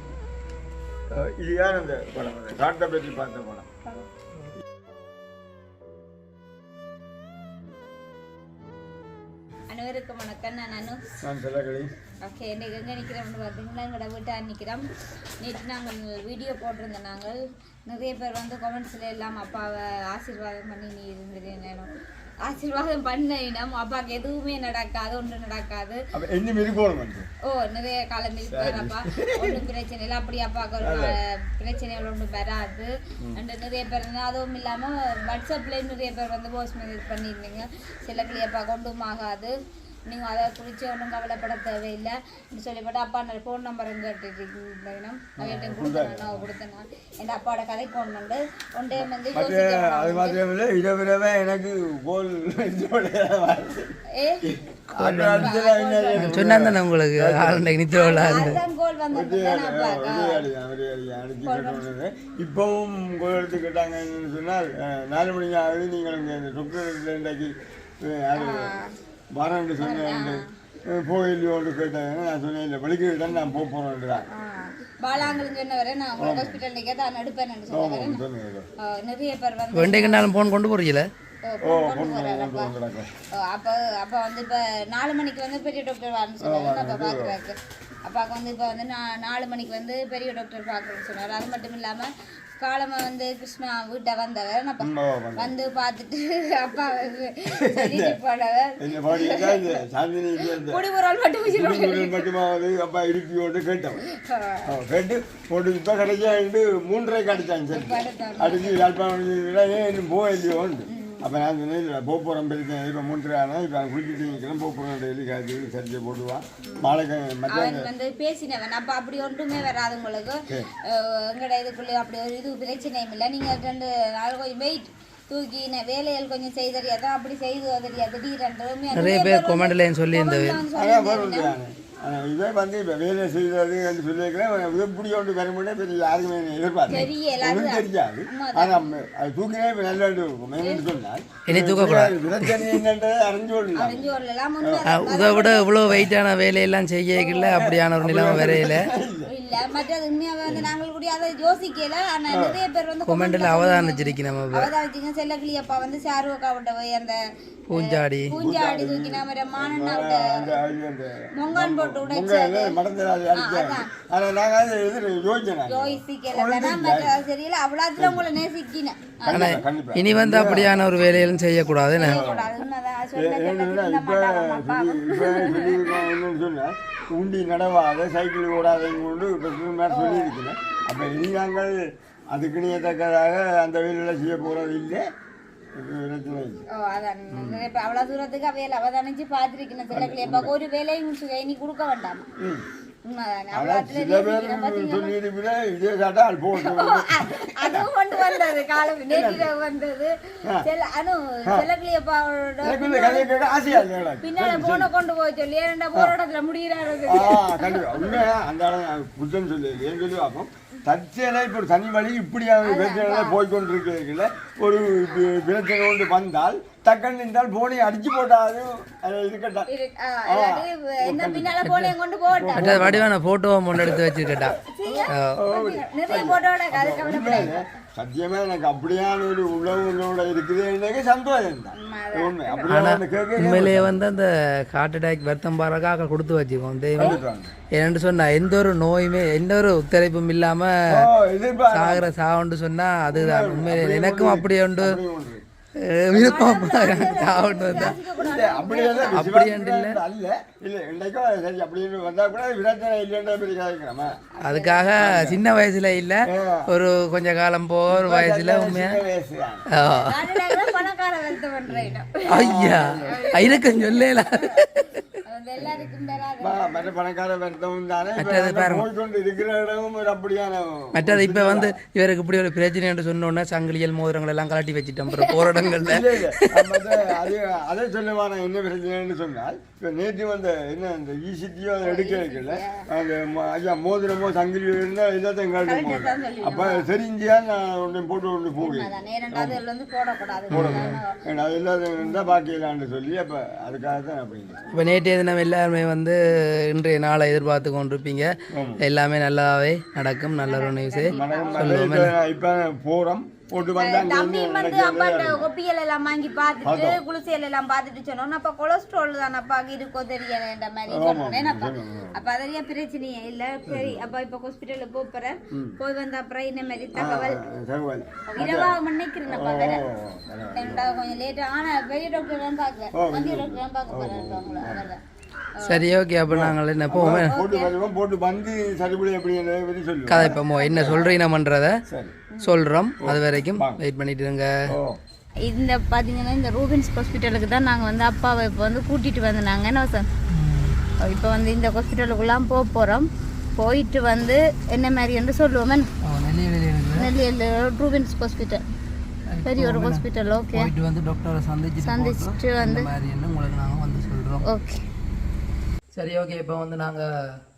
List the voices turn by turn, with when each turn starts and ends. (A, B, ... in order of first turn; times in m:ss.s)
0:01.1-0:03.7 A
0:09.7-0:11.0 B
0:11.2-0:11.9 A
0:12.2-0:14.9 B
0:15.4-0:21.9 B
0:22.4-0:26.0 B
0:26.1-0:27.3 A
0:27.4-0:39.5 B
0:28.5-0:29.6 A
0:30.8-0:31.1 A
0:40.1-0:50.4 B
0:45.4-0:46.5 A
0:48.9-0:57.7 A
0:54.1-0:54.4 B
0:55.0-0:55.5 C
0:55.4-0:56.5 B
0:56.2-0:58.6 C
0:57.9-1:00.5 B
0:58.3-0:58.6 A
0:59.1-1:08.7 A
1:01.4-1:01.8 B
1:08.4-1:08.9 B
1:09.3-1:14.3 A
1:09.8-1:10.4 B
1:14.3-1:18.2 B
1:15.2-1:15.5 A
1:16.2-1:16.6 A
1:17.7-1:18.7 A
1:18.8-1:20.3 B
1:19.7-1:21.1 C
1:21.4-1:22.7 B
1:21.6-1:23.1 A
1:23.4-1:39.8 B
1:26.4-1:27.4 A
1:34.8-1:35.5 A
1:37.5-1:38.2 A
1:38.8-1:40.8 A
1:40.4-1:42.3 B
1:41.5-1:44.0 A
1:44.2-1:44.7 B
1:44.6-1:57.9 A
1:47.7-1:48.8 B
1:50.9-1:51.3 B
1:56.7-1:57.0 B
1:57.5-2:11.5 B
2:08.9-2:10.6 C
2:10.7-2:24.8 A
2:16.9-2:18.8 B
2:21.5-2:22.8 C
2:23.8-2:25.7 B
2:24.8-2:28.9 C
2:27.3-2:29.3 A
2:29.3-2:37.2 B
2:30.4-2:30.7 A
2:32.3-2:32.6 A
2:33.0-2:34.7 C
2:37.7-2:38.3 C
2:37.7-2:40.5 B
2:38.3-2:47.2 A
2:41.3-2:42.8 B
2:43.4-2:43.9 B
2:45.7-2:49.5 B
2:48.0-2:48.3 A
2:49.2-2:51.3 A
2:49.3-2:52.2 C
2:52.0-2:56.1 B
2:52.0-2:52.5 A
2:53.1-3:05.0 A
2:59.9-3:00.3 B
3:05.7-3:06.6 A
3:06.7-3:12.3 B
3:07.3-3:07.7 A
3:09.9-3:10.5 A
3:12.4-3:12.6 A
3:13.0-3:15.1 B
3:13.5-3:18.5 A
3:16.6-3:28.2 B
3:19.0-3:19.5 A
3:22.6-3:24.9 A
3:27.1-3:39.7 A
3:32.6-3:33.4 B
3:39.7-3:42.9 B
3:40.3-3:43.0 A
3:42.6-3:44.6 C
3:43.7-3:53.9 A
3:44.6-3:47.6 B
3:45.1-3:45.4 C
3:51.7-3:52.7 B
3:52.7-3:57.2 C
3:57.0-3:57.5 A
3:57.8-4:01.0 C
4:00.9-4:02.1 A
4:01.7-4:05.0 C
4:03.1-4:05.4 A
4:05.8-4:08.0 C
4:06.1-4:09.2 B
4:08.1-4:14.2 A
4:09.1-4:10.0 C
4:14.4-4:15.0 B
4:14.4-4:19.0 C
4:15.0-4:15.4 A
4:16.2-4:16.7 A
4:17.9-4:19.6 A
4:19.7-4:20.8 C
4:20.0-4:24.5 B
4:22.3-4:25.1 C
4:22.4-4:23.2 A
4:25.3-4:26.9 B
4:26.4-4:31.8 A
4:28.2-4:28.8 C
4:30.9-4:36.9 C
4:35.1-4:35.6 B
4:35.8-4:49.6 A
4:41.8-4:42.8 B
4:45.6-4:46.9 B
4:48.6-4:51.2 B
4:50.5-4:54.6 A
4:50.5-4:51.0 C
4:52.0-4:52.2 B
4:54.7-5:02.1 C
4:58.5-4:58.8 A
5:00.4-5:01.7 B
5:01.1-5:05.5 A
5:03.8-5:17.4 B
5:06.6-5:07.0 A
5:10.9-5:12.2 A
5:13.7-5:14.1 A
5:15.5-5:15.8 A
5:16.9-5:18.8 A
5:18.3-5:19.8 B
5:19.3-5:20.9 A
5:20.6-5:25.0 B
5:22.9-5:24.9 A
5:25.6-5:25.8 B
5:25.6-5:27.4 C
5:26.3-5:31.0 A
5:27.2-5:27.7 B
5:30.1-5:31.8 C
5:30.2-5:31.1 B
5:31.9-5:32.2 A
5:32.4-5:34.5 C
5:33.0-5:33.8 A
5:34.7-5:35.0 A
5:35.4-5:40.1 B
5:40.3-5:40.8 C
5:41.0-5:45.9 B
5:46.0-5:47.1 C
5:47.0-5:48.6 B
5:49.3-5:54.5 C
5:49.4-5:50.7 B
5:51.8-5:52.9 B
5:54.4-5:54.8 B
5:56.0-5:57.1 C